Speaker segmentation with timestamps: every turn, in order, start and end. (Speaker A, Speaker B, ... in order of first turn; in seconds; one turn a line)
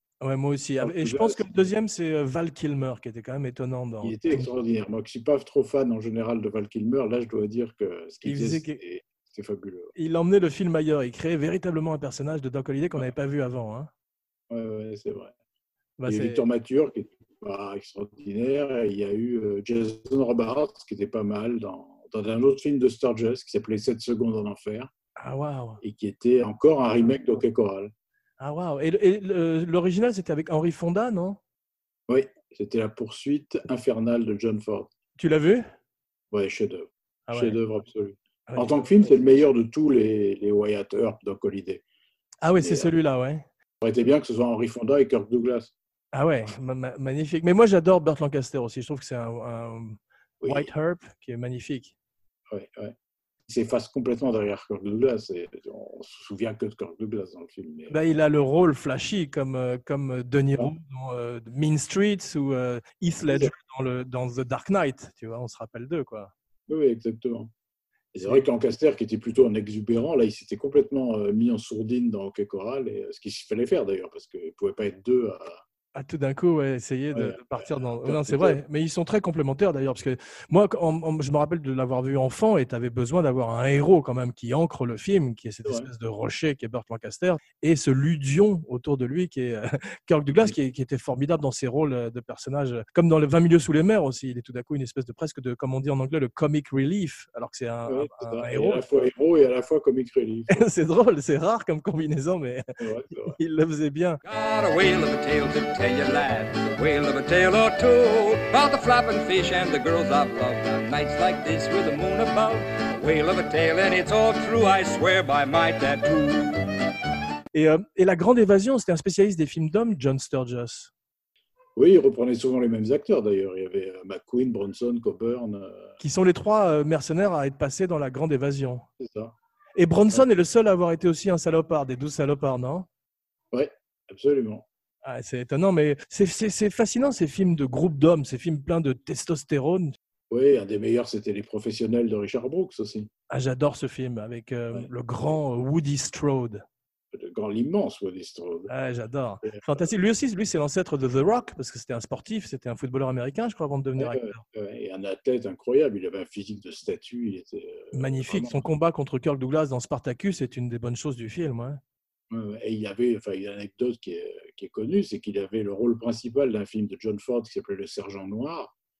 Speaker A: 0.2-4.5
Speaker B: 0.8-1.4
Speaker B: 4.0-9.9
Speaker A: 8.2-8.8
Speaker A: 10.0-13.9
Speaker B: 14.5-15.3
Speaker A: 16.0-16.4
Speaker B: 16.1-24.9
Speaker A: 25.2-25.8
Speaker B: 25.8-27.9
Speaker A: 28.4-31.4
Speaker B: 32.1-34.9
Speaker A: 35.2-35.7
Speaker B: 36.3-41.8
Speaker A: 37.3-37.6
Speaker A: 38.5-38.8
Speaker A: 42.4-43.4
Speaker B: 42.6-42.9
Speaker B: 43.8-45.7
Speaker A: 46.1-51.9
Speaker B: 50.4-50.7
Speaker B: 52.5-53.0
Speaker B: 53.5-58.0
Speaker A: 57.9-66.3
Speaker B: 63.3-63.5
Speaker B: 66.7-67.5
Speaker B: 68.1-75.6
Speaker A: 76.0-98.8
Speaker B: 77.1-78.6
Speaker B: 97.9-100.6
Speaker A: 100.5-102.6
Speaker B: 102.8-103.4
Speaker A: 103.2-104.2
Speaker C: 104.2-116.7
Speaker A: 117.5-120.9
Speaker B: 121.8-126.0
Speaker A: 126.0-128.8
Speaker B: 129.0-129.3
Speaker A: 129.8-132.9
Speaker B: 133.5-134.7
Speaker A: 135.0-140.0
Speaker B: 140.3-143.1
Speaker A: 143.3-146.6
Speaker B: 147.1-148.7
Speaker A: 148.7-154.4
Speaker B: 149.4-149.9
Speaker B: 154.0-158.6
Speaker A: 157.9-161.8
Speaker B: 162.3-168.7